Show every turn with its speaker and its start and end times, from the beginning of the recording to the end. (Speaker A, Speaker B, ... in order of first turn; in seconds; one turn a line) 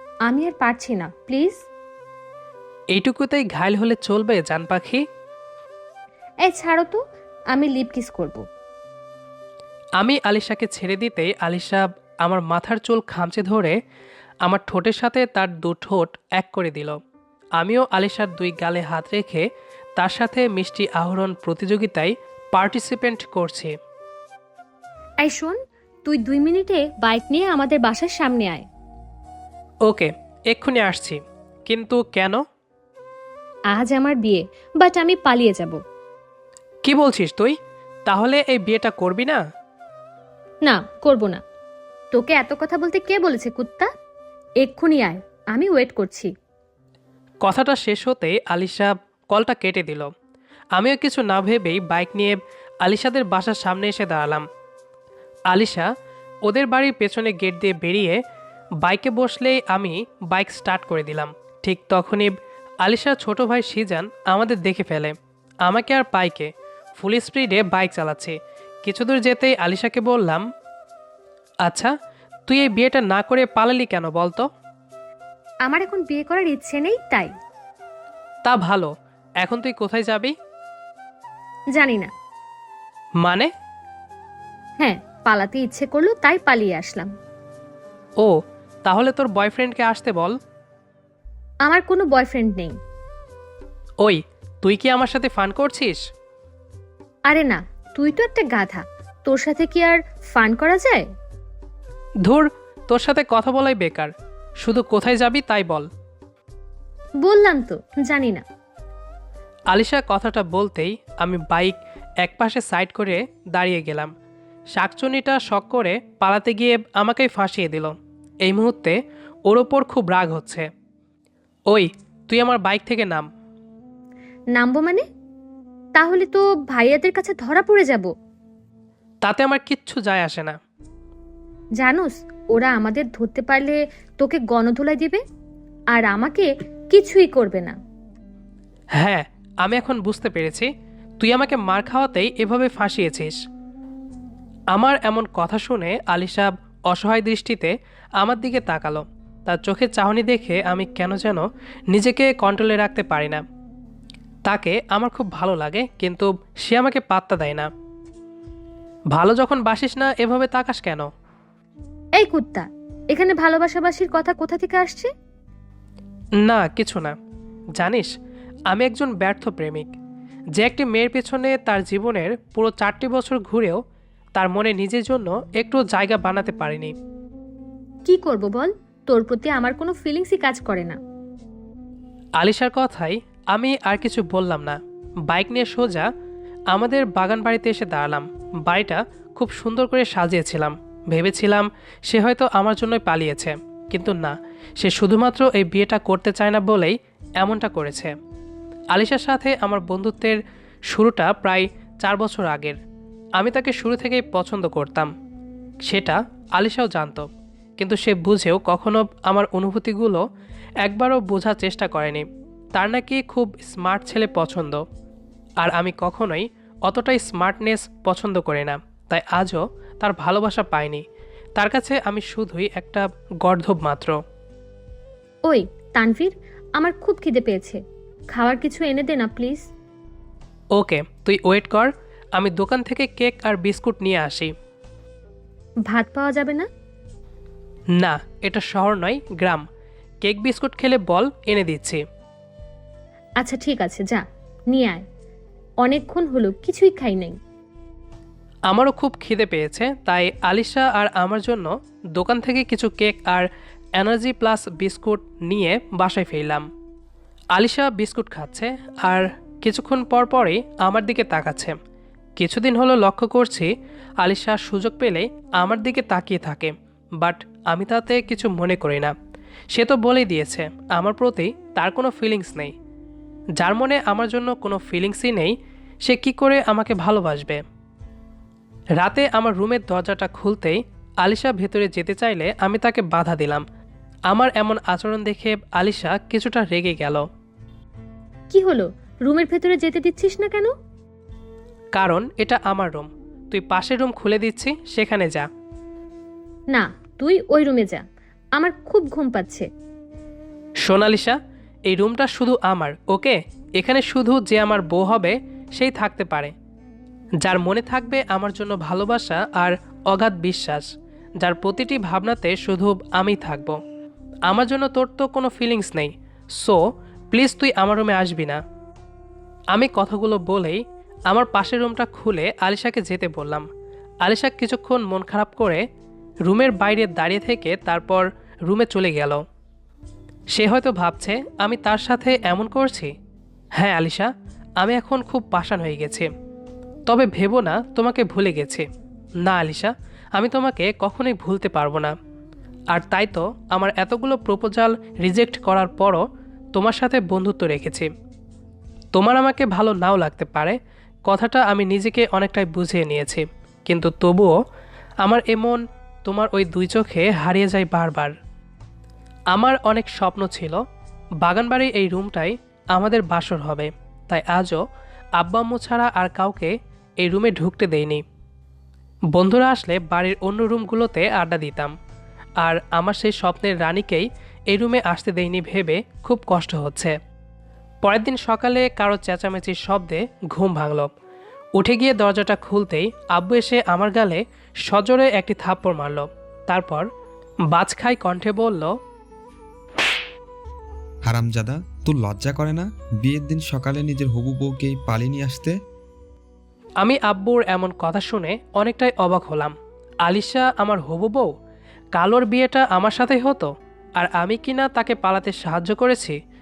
Speaker A: 0.3-1.7
Speaker B: 2.9-5.0
Speaker A: 6.5-7.0
Speaker A: 7.5-8.4
Speaker B: 10.0-13.8
Speaker B: 14.4-17.0
Speaker B: 17.6-19.5
Speaker B: 20.0-23.7
Speaker A: 25.2-28.7
Speaker B: 29.9-32.4
Speaker A: 33.7-35.8
Speaker B: 36.9-37.6
Speaker B: 38.1-39.4
Speaker A: 40.6-41.4
Speaker A: 42.1-43.9
Speaker A: 44.6-46.3
Speaker B: 47.4-50.1
Speaker B: 50.8-54.5
Speaker B: 55.5-55.9
Speaker B: 56.5-58.2
Speaker B: 58.8-62.3
Speaker B: 62.9-70.4
Speaker B: 71.7-71.9
Speaker B: 72.5-74.5
Speaker A: 75.7-77.3
Speaker B: 78.5-78.9
Speaker B: 79.4-80.3
Speaker A: 81.7-82.1
Speaker B: 83.2-83.5
Speaker A: 84.8-87.1
Speaker B: 88.2-90.4
Speaker A: 91.7-92.8
Speaker B: 94.0-96.0
Speaker A: 97.3-101.1
Speaker B: 102.2-104.1
Speaker B: 104.6-105.9
Speaker A: 107.2-108.4
Speaker B: 109.7-114.1
Speaker B: 114.8-120.7
Speaker B: 121.7-123.3
Speaker A: 124.5-125.0
Speaker A: 126.0-128.1
Speaker B: 129.2-130.6
Speaker A: 131.8-135.2
Speaker A: 135.9-137.8
Speaker B: 139.0-140.7
Speaker B: 141.2-143.4
Speaker B: 144.8-153.4
Speaker B: 154.5-157.7
Speaker B: 159.2-161.1
Speaker A: 162.2-165.1
Speaker B: 166.4-167.2
Speaker B: 167.8-168.1
Speaker B: 168.7-169.9
Speaker B: 170.6-173.8
Speaker B: 174.4-176.9
Speaker A: 178.1-181.0
Speaker B: 182.4-186.1
Speaker B: 186.7-198.1
Speaker B: 198.9-200.4
Speaker B: 200.9-202.8
Speaker B: 203.4-205.1
Speaker B: 205.9-207.3
Speaker B: 207.8-210.2
Speaker B: 210.8-212.2
Speaker B: 212.8-214.8
Speaker B: 215.6-221.0
Speaker B: 221.6-224.2
Speaker A: 225.5-227.8
Speaker A: 228.3-229.7
Speaker B: 230.8-234.5
Speaker A: 235.9-236.7
Speaker B: 238.0-239.7
Speaker B: 240.2-242.0
Speaker A: 243.4-245.0
Speaker A: 245.8-247.4
Speaker B: 248.7-256.7
Speaker B: 257.6-261.8
Speaker B: 262.4-263.7
Speaker B: 264.2-269.1
Speaker B: 269.7-272.7
Speaker B: 273.6-277.6
Speaker B: 279.0-283.6
Speaker B: 284.3-287.3
Speaker A: 288.5-290.7
Speaker B: 291.9-295.5
Speaker A: 296.7-298.0
Speaker A: 298.6-299.7
Speaker B: 300.9-301.4
Speaker B: 301.9-306.5
Speaker B: 307.4-310.9
Speaker B: 311.4-313.8
Speaker B: 314.5-318.6
Speaker B: 319.7-323.7
Speaker B: 324.2-325.8
Speaker B: 326.5-329.4
Speaker B: 330.5-333.1
Speaker B: 333.8-334.3
Speaker B: 334.8-336.3
Speaker B: 337.1-338.9
Speaker B: 339.4-342.1
Speaker B: 342.9-346.2
Speaker B: 346.8-348.1
Speaker B: 349.1-354.6
Speaker B: 355.2-358.4
Speaker B: 359.5-360.8
Speaker B: 361.4-364.8
Speaker B: 365.4-368.2
Speaker B: 369.3-371.9
Speaker B: 372.6-377.2
Speaker B: 378.0-381.1
Speaker B: 381.8-387.1
Speaker B: 387.7-388.9
Speaker C: 391.3-395.8
Speaker B: 397.0-401.5
Speaker B: 402.1-406.4